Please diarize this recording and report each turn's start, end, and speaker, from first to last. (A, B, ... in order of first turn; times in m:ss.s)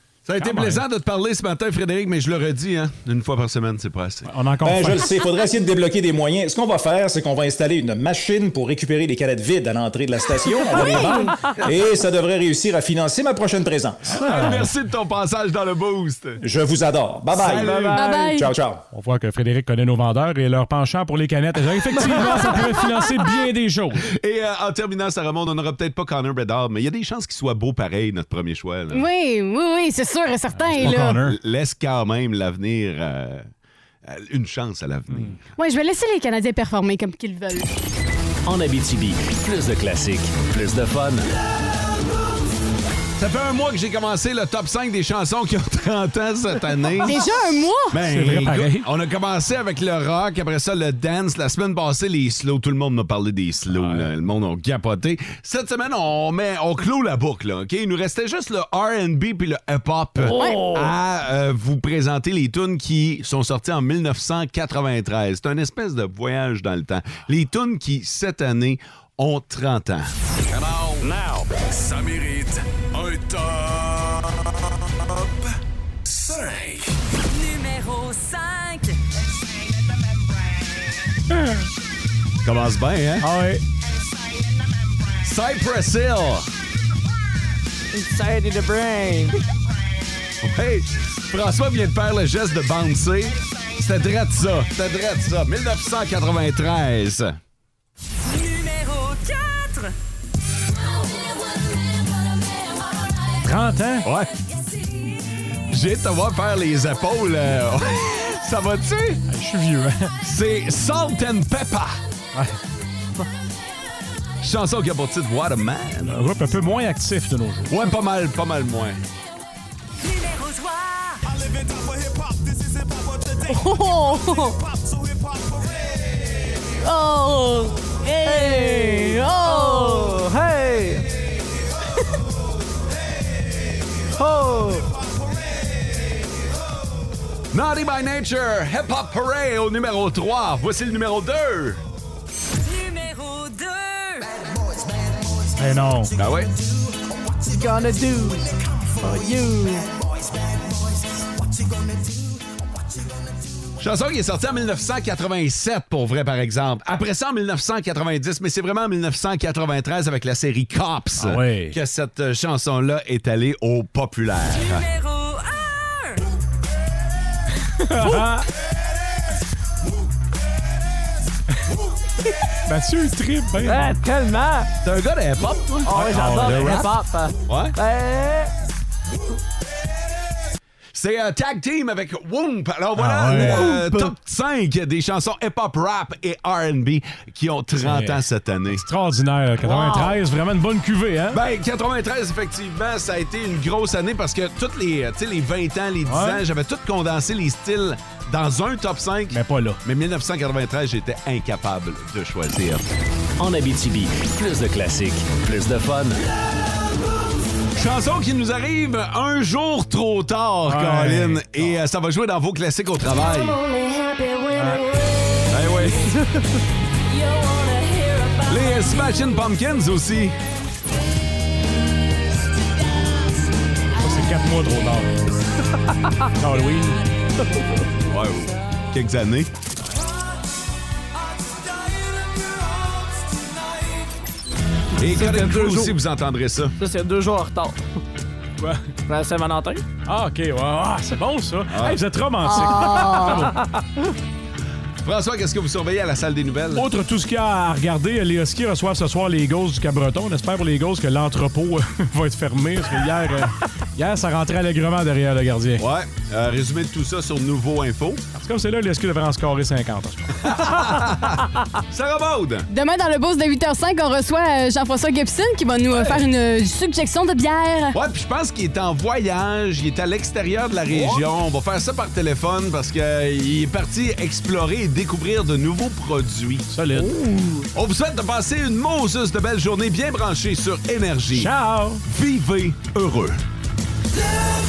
0:00.2-0:04.3 A
0:00.4-0:00.8 B
0:04.2-0:05.1 B
0:04.6-0:14.6 C
0:10.8-0:11.0 D
0:14.1-0:14.7 B
0:14.2-0:16.4 A
0:16.4-0:18.8 C
0:17.3-0:18.0 A
0:17.4-0:18.4 E
0:17.9-0:18.5 D
0:18.9-0:24.0 B
0:24.0-0:29.1 A
0:28.9-0:31.2 D
0:30.5-0:31.4 B
0:30.8-0:33.5 A
0:34.0-0:35.4 A
0:35.1-0:35.4 B
0:35.6-0:37.6 D
0:38.4-0:41.2 F
0:43.2-1:10.1 A
0:47.0-0:48.0 D
0:48.0-0:48.9 B
0:53.7-0:54.1 B
1:00.2-1:00.9 E
1:00.3-1:00.6 D
1:10.5-1:11.0 G
1:11.0-1:11.4 A
1:12.0-1:12.5 A
1:13.1-1:13.5 A
1:17.4-1:18.9 H
1:21.3-1:21.6 B
1:22.4-1:23.3 A
1:23.2-1:23.6 B
1:25.2-1:26.5 A
1:27.9-1:29.4 E
1:30.4-1:37.4 A
1:43.4-1:44.1 B
1:44.0-1:44.3 A
1:45.7-1:49.2 A
1:49.3-1:50.2 B
1:50.2-1:52.0 A
1:52.3-1:52.6 B
1:54.4-1:56.2 A
1:56.0-1:57.7 B
1:57.7-1:59.0 A
2:00.2-2:00.9 H
2:01.2-2:06.4 G
2:03.5-2:04.6 D
2:06.8-2:10.2 D
2:08.2-2:11.0 E
2:14.2-2:14.9 E
2:14.9-2:15.9 G
2:17.5-2:21.8 A
2:22.8-2:23.9 H
2:25.6-2:26.1 B
2:26.1-2:26.6 A
2:27.4-2:29.9 E
2:33.8-2:44.9 A
2:41.2-2:41.8 B
2:47.7-2:48.5 B
2:52.7-2:53.8 B
2:53.6-2:54.7 E
2:54.8-2:56.9 A
2:55.8-2:58.5 E
2:55.9-2:56.9 B
2:57.4-2:57.8 A
3:00.9-3:08.9 A
3:03.0-3:03.9 B
3:03.5-3:03.8 E
3:07.8-3:11.4 B
3:09.6-3:10.2 A
3:11.3-3:22.8 A
3:16.0-3:16.4 B
3:19.3-3:19.8 B
3:23.4-3:26.2 F
3:27.8-3:33.6 A
3:30.7-3:31.8 B
3:33.7-3:35.0 H
3:34.5-3:34.9 B
3:35.5-3:36.1 A
3:37.2-3:38.3 H
3:38.4-3:40.4 A
3:44.0-3:45.4 B
3:46.4-3:47.0 B
3:47.9-3:49.5 A
3:55.0-3:56.8 A
3:55.1-3:56.0 E
3:56.8-3:57.8 E
3:58.6-3:58.9 B
3:59.1-3:59.8 E
4:00.0-4:03.6 B
4:01.6-4:02.0 A
4:02.4-4:03.5 D
4:05.0-4:06.9 A
4:06.7-4:15.8 B
4:15.8-4:18.2 A
4:18.3-4:20.7 B
4:20.4-4:22.6 A
4:22.7-4:28.0 D
4:25.9-4:26.2 A
4:27.9-4:37.1 A
4:30.9-4:31.2 B
4:36.7-4:37.4 B
4:37.7-4:43.4 A
4:41.3-4:42.0 B